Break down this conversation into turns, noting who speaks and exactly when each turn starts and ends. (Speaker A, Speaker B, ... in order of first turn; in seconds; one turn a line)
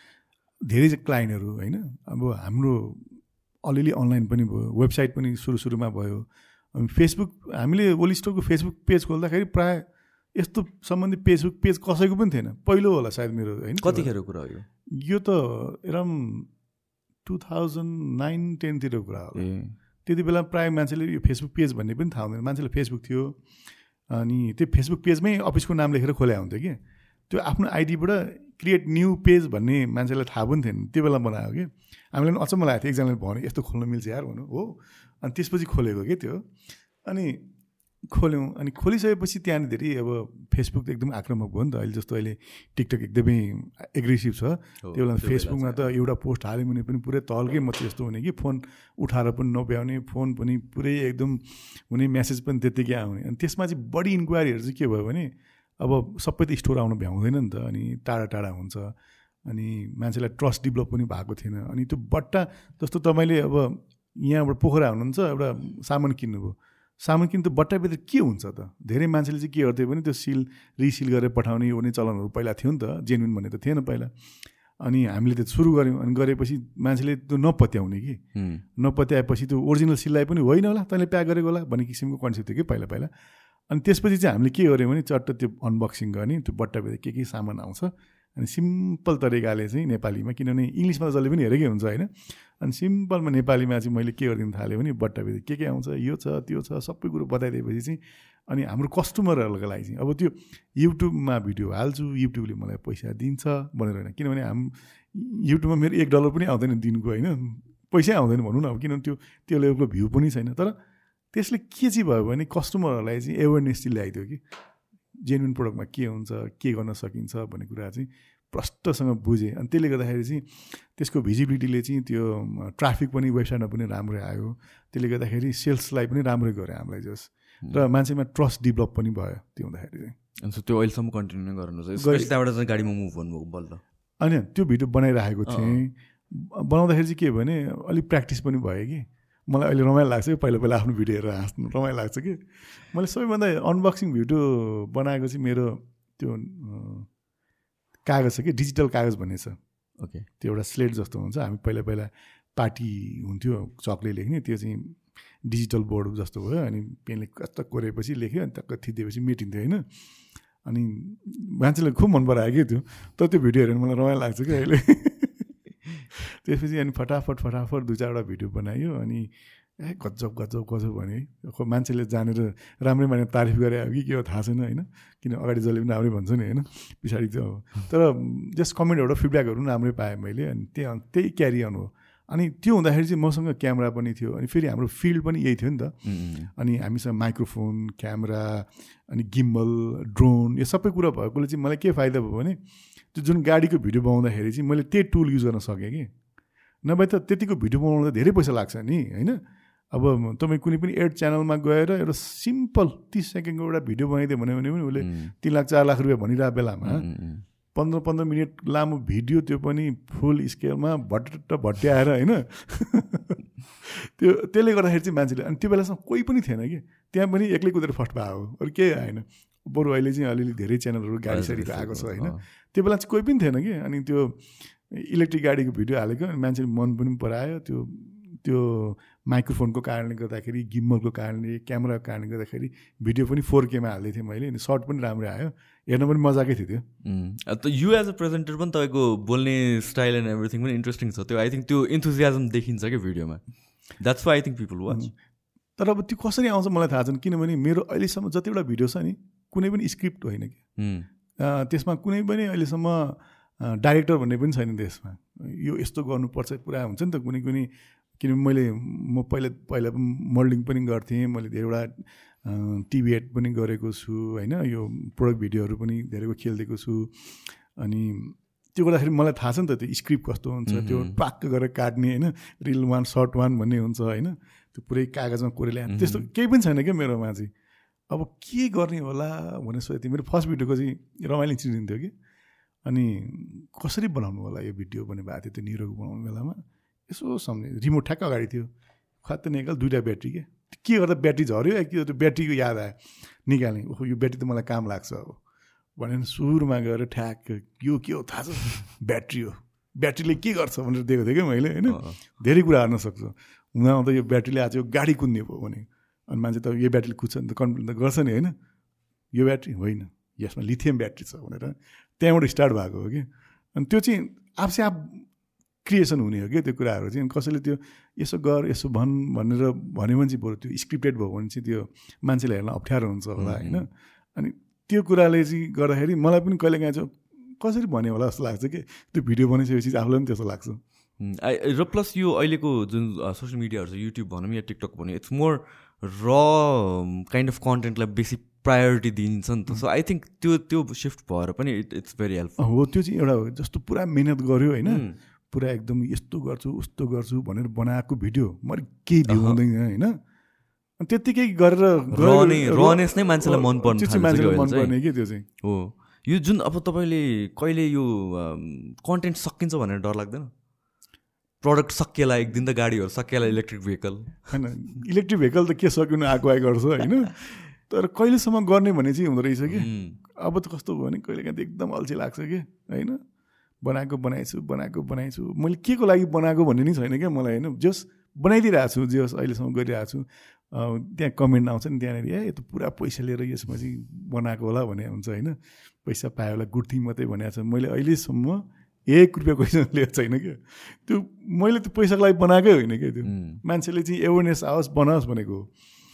Speaker A: 0.7-14.1
Speaker B: 13.8-14.7
Speaker A: 14.9-16.5
Speaker A: 17.2-19.5
Speaker B: 19.4-19.8
Speaker A: 20.1-23.4
Speaker A: 24.1-36.5
Speaker A: 37.0-37.5
Speaker A: 38.1-58.9
Speaker B: 44.8-45.8
Speaker A: 59.5-74.1
Speaker A: 74.8-78.2
Speaker B: 78.3-78.6
Speaker A: 78.8-83.1
Speaker A: 83.7-110.8
Speaker A: 111.3-114.4
Speaker A: 115.2-130.2
Speaker B: 130.4-133.8
Speaker A: 132.0-132.3
Speaker A: 134.2-147.1
Speaker B: 135.5-135.8
Speaker A: 148.1-149.6
Speaker B: 150.0-150.3
Speaker A: 150.4-159.8
Speaker A: 160.6-165.5
Speaker A: 166.1-192.6
Speaker B: 186.1-186.5
Speaker A: 193.1-196.1
Speaker A: 196.8-199.4
Speaker A: 199.9-207.1
Speaker B: 205.0-205.3
Speaker B: 206.8-207.4
Speaker A: 207.8-236.8
Speaker B: 221.3-222.4
Speaker B: 237.0-245.1
Speaker A: 245.8-250.6
Speaker B: 250.8-251.1
Speaker A: 251.4-277.5
Speaker B: 270.7-271.2
Speaker B: 275.9-276.3
Speaker A: 278.1-282.1
Speaker A: 282.9-288.7
Speaker A: 289.2-295.4
Speaker A: 296.0-308.5
Speaker B: 301.9-302.2
Speaker A: 309.3-315.3
Speaker A: 315.8-330.8
Speaker B: 323.4-323.9
Speaker B: 331.2-342.7
Speaker A: 342.6-350.2
Speaker B: 344.9-345.2
Speaker B: 349.3-349.6
Speaker A: 351.0-355.5
Speaker B: 352.1-355.0
Speaker B: 355.6-360.5
Speaker B: 361.6-364.6
Speaker A: 364.5-373.2
Speaker B: 369.7-370.2
Speaker A: 373.8-395.7
Speaker B: 393.2-393.6